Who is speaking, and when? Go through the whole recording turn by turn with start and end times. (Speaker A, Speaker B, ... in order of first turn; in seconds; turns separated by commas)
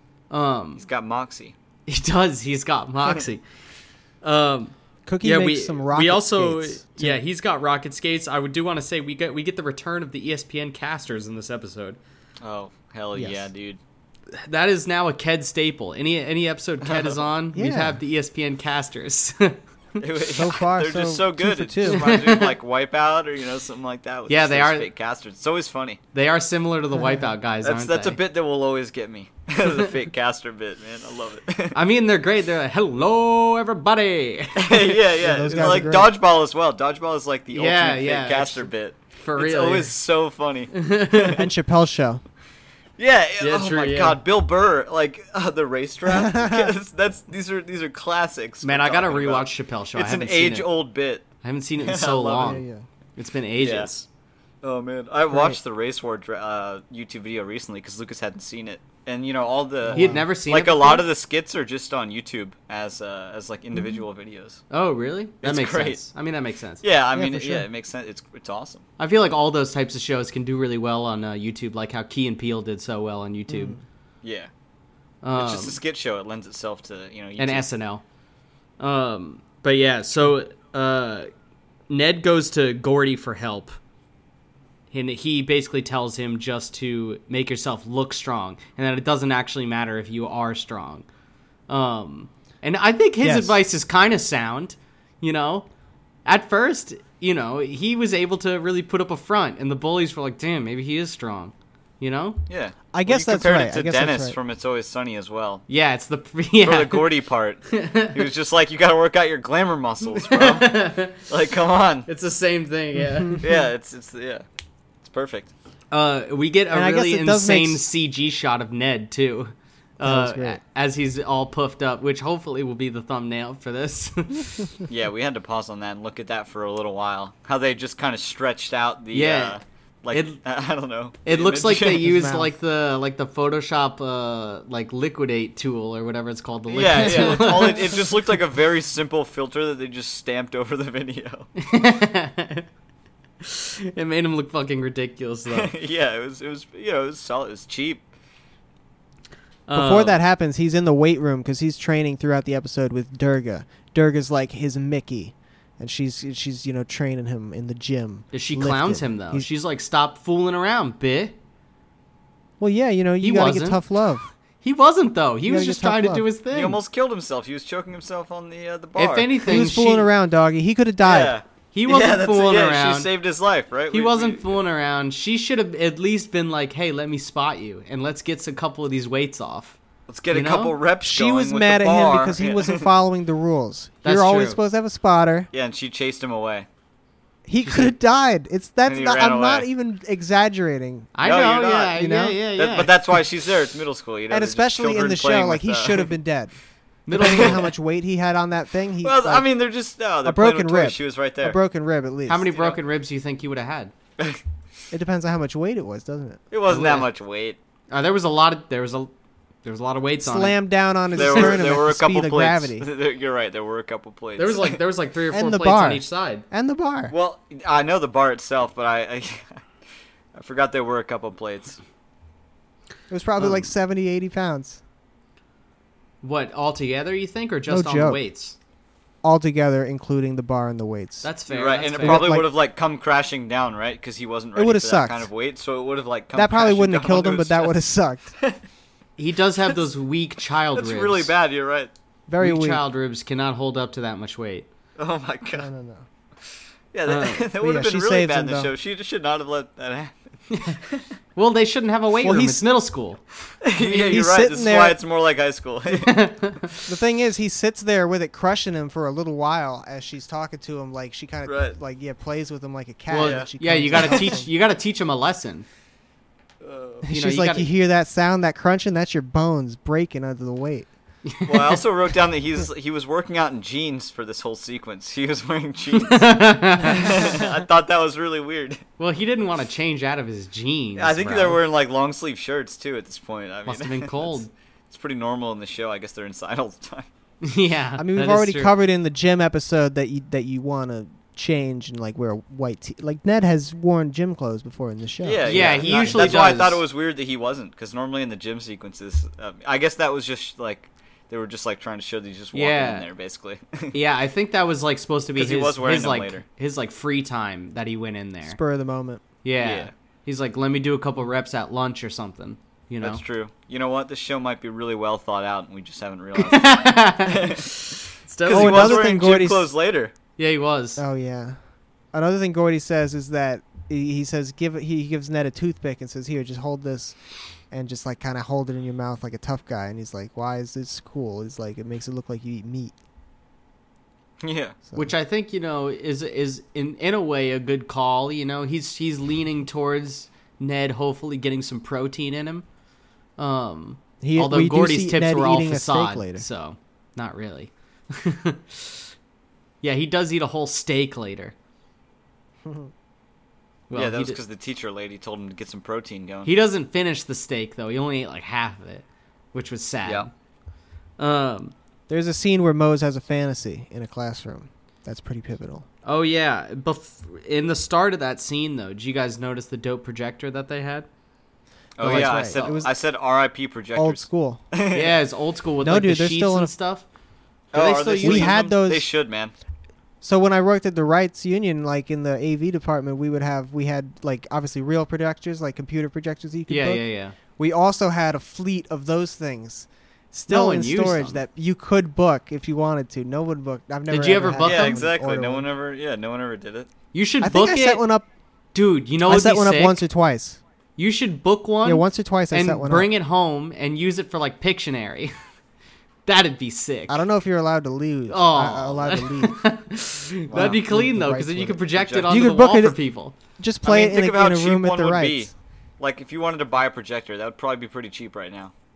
Speaker A: 0.3-0.8, Speaker B: 0.8-1.6, Speaker A: 1.9-3.4, Speaker A: 4.2-12.0, Speaker C: 5.1-7.2, Speaker B: 12.4-13.8, Speaker C: 13.1-13.5, Speaker A: 14.3-19.6, Speaker B: 16.9-17.2, Speaker C: 17.5-18.0, Speaker B: 20.0-26.0, Speaker C: 20.3-22.2, Speaker A: 21.9-22.5, Speaker A: 24.3-24.9, Speaker A: 26.1-28.2, Speaker B: 27.6-31.8, Speaker A: 31.7-35.0, Speaker B: 34.6-41.4, Speaker C: 35.2-36.1, Speaker A: 37.5-39.9, Speaker A: 40.7-41.4, Speaker C: 41.4-42.2, Speaker B: 43.0-51.3, Speaker A: 43.4-44.2, Speaker C: 46.1-46.7, Speaker A: 48.6-50.7, Speaker A: 51.4-52.6, Speaker B: 51.8-52.6, Speaker C: 52.4-52.9, Speaker A: 53.2-54.1, Speaker B: 53.6-53.9, Speaker B: 54.6-64.6, Speaker C: 55.3-55.6, Speaker C: 59.9-60.3, Speaker A: 59.9-61.1, Speaker A: 64.7-66.8, Speaker B: 65.4-66.0, Speaker B: 66.8-68.8, Speaker C: 67.1-67.7, Speaker A: 69.0-73.8, Speaker C: 73.5-73.8, Speaker B: 74.2-74.5, Speaker A: 75.2-75.8, Speaker B: 75.4-77.7, Speaker A: 77.4-78.0, Speaker A: 78.8-81.3, Speaker A: 81.9-83.8, Speaker A: 84.9-91.1, Speaker A: 91.7-95.7, Speaker C: 93.2-93.6, Speaker A: 96.2-102.4, Speaker B: 102.5-105.6, Speaker C: 102.9-104.4, Speaker A: 105.7-107.1, Speaker B: 106.6-112.1, Speaker A: 107.7-108.2, Speaker A: 110.1-111.3, Speaker A: 112.1-113.4, Speaker B: 113.4-114.4, Speaker B: 115.0-115.5, Speaker A: 115.9-124.8, Speaker C: 116.7-117.8, Speaker C: 120.0-120.6, Speaker B: 124.9-132.1, Speaker A: 129.1-129.6, Speaker A: 130.1-130.4, Speaker A: 131.2-138.0, Speaker C: 132.0-132.5, Speaker B: 136.7-141.5, Speaker C: 137.0-137.6, Speaker A: 141.6-142.7, Speaker A: 143.4-145.7, Speaker B: 145.5-148.1, Speaker A: 149.7-150.2, Speaker C: 149.7-159.5, Speaker A: 158.3-161.4, Speaker C: 162.6-164.3, Speaker A: 163.2-163.8, Speaker A: 164.6-166.8, Speaker C: 165.5-166.2, Speaker B: 166.5-169.6, Speaker A: 169.0-170.1, Speaker C: 169.5-171.3, Speaker B: 171.0-174.6, Speaker A: 171.7-173.1, Speaker A: 173.9-179.8, Speaker B: 180.1-182.9, Speaker A: 180.3-180.8, Speaker C: 181.0-185.5, Speaker A: 184.0-184.6, Speaker B: 185.5-186.7, Speaker C: 187.5-191.1, Speaker A: 187.6-187.9, Speaker B: 188.9-189.7, Speaker A: 191.1-193.0, Speaker B: 191.2-192.0, Speaker C: 192.0-192.4, Speaker B: 192.6-196.1, Speaker C: 194.3-196.5, Speaker A: 197.1-197.7, Speaker C: 197.1-199.5, Speaker B: 197.2-197.6, Speaker B: 199.0-201.6, Speaker C: 200.2-202.5, Speaker A: 202.3-203.9, Speaker C: 204.9-206.4, Speaker B: 206.5-207.6, Speaker A: 206.7-207.1, Speaker A: 207.9-209.1, Speaker A: 209.6-210.6, Speaker C: 210.2-212.9, Speaker B: 211.1-214.8, Speaker A: 211.2-211.5, Speaker A: 214.4-216.4, Speaker C: 215.3-217.1, Speaker B: 217.1-219.6, Speaker B: 220.3-221.8, Speaker C: 223.1-224.8, Speaker A: 226.2-228.6, Speaker C: 227.7-228.2, Speaker C: 229.2-231.3, Speaker A: 231.2-232.4, Speaker B: 231.5-237.7, Speaker C: 232.0-232.5, Speaker C: 234.6-235.3, Speaker C: 236.3-238.3, Speaker A: 239.2-241.3, Speaker B: 240.7-241.9, Speaker C: 242.3-242.8, Speaker A: 242.4-244.7, Speaker B: 245.0-245.7, Speaker C: 245.5-246.1, Speaker B: 246.9-250.1, Speaker A: 247.1-247.5, Speaker C: 247.6-248.7, Speaker A: 250.5-250.8, Speaker A: 251.4-253.2, Speaker C: 252.2-252.7, Speaker B: 253.6-256.3, Speaker C: 253.8-255.0, Speaker A: 255.9-256.8, Speaker C: 256.9-264.5, Speaker B: 261.5-261.8, Speaker A: 263.1-265.7, Speaker B: 263.2-264.3, Speaker B: 266.6-267.1, Speaker C: 267.0-270.9, Speaker A: 267.1-267.7, Speaker A: 271.2-271.8, Speaker B: 271.5-278.8, Speaker A: 275.9-277.4, Speaker A: 279.0-281.6, Speaker B: 281.0-284.4, Speaker A: 283.7-284.5, Speaker B: 284.9-287.1, Speaker A: 287.4-288.7, Speaker C: 288.0-296.4, Speaker B: 295.2-304.0, Speaker A: 295.4-296.8, Speaker A: 302.5-303.1, Speaker A: 303.9-308.6, Speaker B: 305.4-306.4, Speaker C: 308.5-309.2, Speaker A: 309.4-313.2, Speaker B: 309.6-309.9, Speaker B: 313.0-320.1, Speaker A: 316.4-317.6, Speaker A: 318.2-319.0, Speaker C: 318.5-319.7, Speaker A: 320.4-321.0, Speaker C: 321.0-321.6, Speaker C: 322.1-327.2, Speaker C: 327.7-332.9, Speaker B: 334.4-334.8, Speaker A: 334.9-342.6, Speaker A: 343.4-349.1, Speaker C: 344.2-346.4, Speaker A: 349.8-351.6, Speaker C: 352.6-352.9, Speaker A: 353.9-354.4, Speaker B: 353.9-356.5, Speaker A: 356.4-360.3, Speaker A: 361.2-361.7, Speaker C: 362.1-365.9, Speaker A: 366.1-371.1, Speaker B: 372.0-375.2, Speaker C: 372.0-372.9, Speaker A: 372.0-372.8, Speaker C: 374.0-374.6, Speaker A: 374.9-377.0, Speaker C: 375.8-376.7, Speaker A: 377.7-378.5, Speaker B: 377.7-379.5, Speaker C: 378.2-379.1, Speaker C: 380.2-387.0, Speaker A: 386.7-387.4, Speaker C: 387.6-395.7, Speaker A: 390.5-391.4, Speaker A: 394.1-395.0, Speaker B: 394.6-396.9, Speaker A: 397.1-398.0, Speaker C: 397.4-398.3, Speaker A: 398.7-400.0, Speaker C: 399.2-400.6, Speaker A: 401.0-405.3, Speaker C: 401.8-403.1, Speaker A: 406.2-407.2, Speaker C: 407.1-409.6, Speaker A: 408.3-413.4, Speaker B: 410.5-410.8, Speaker C: 410.5-413.0, Speaker B: 411.9-412.4, Speaker C: 413.6-415.5, Speaker B: 413.8-418.7